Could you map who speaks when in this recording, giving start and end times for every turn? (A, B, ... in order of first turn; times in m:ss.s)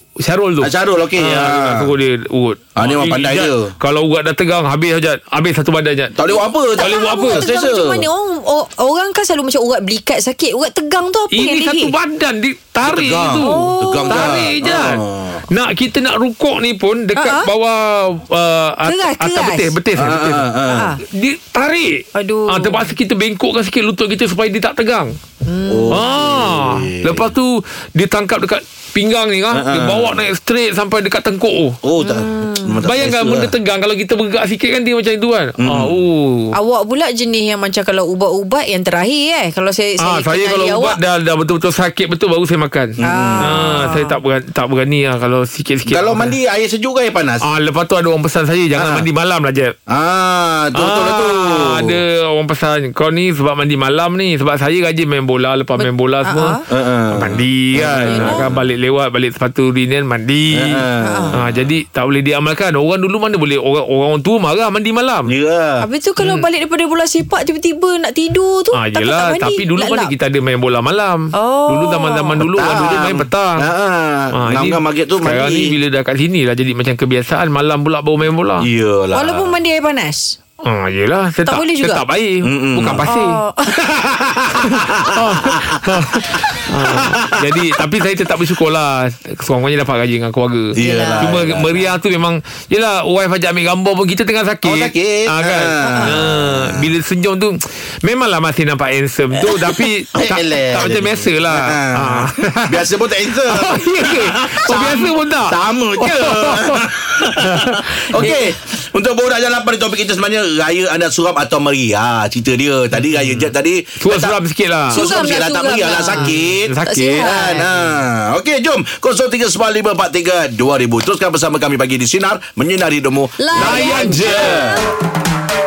0:00.2-0:06.1 A
0:00.6-0:01.9 B
0:02.8-0:03.7 B
0:06.1-0:08.1 B
0:06.7-0:11.9 C
0:06.8-0:07.4 A
0:11.3-0:20.5 A
0:12.8-0:15.4 B
0:13.4-0:14.3 C
0:17.2-0:17.5 C
0:18.9-0:19.7 C
0:20.0-0:20.9 B
0:20.7-0:21.0 C
0:21.1-0:25.1 A
0:22.1-0:22.9 C
0:25.4-0:26.0 C
0:25.7-0:27.3 B
0:25.9-0:31.8 A
0:29.5-0:30.2 B
0:31.8-0:33.5 B
0:32.0-0:32.8 C
0:32.8-0:36.5 A
0:35.6-0:36.0 B
0:36.5-0:41.0 C
0:40.0-0:46.4 A
0:43.0-0:44.2 C
0:43.0-0:43.6 B
0:45.9-0:47.4 B
0:47.4-0:49.8 A
0:48.7-0:49.0 B
0:49.9-0:51.9 B
0:50.7-0:56.6 A
0:55.8-0:56.6 C
0:56.7-0:58.7 B
0:57.1-1:00.8 A
0:58.0-0:58.4 C
1:00.5-1:01.7 B
1:01.0-1:01.4 C
1:01.4-1:05.3 A
1:05.3-1:05.9 B
1:05.8-1:10.1 C
1:06.2-1:06.4 A
1:08.7-1:13.6 A
1:11.3-1:12.4 C
1:12.5-1:15.8 B
1:14.3-1:18.6 A
1:18.6-1:19.6 B
1:19.1-1:20.4 C
1:20.6-1:23.4 A
1:21.4-1:22.0 C
1:22.4-1:23.1 B
1:23.1-1:23.7 C
1:23.9-1:26.2 B
1:24.6-1:48.3 A
1:26.9-1:27.6 B
1:30.7-1:31.9 B
1:30.8-1:31.4 C
1:34.6-1:36.8 B
1:35.8-1:36.3 C
1:39.5-1:54.4 B
1:53.0-1:55.1 A
1:54.9-2:04.9 B
1:54.9-1:57.6 C
1:56.1-1:57.9 A
2:03.4-2:04.8 C
2:03.5-2:04.6 A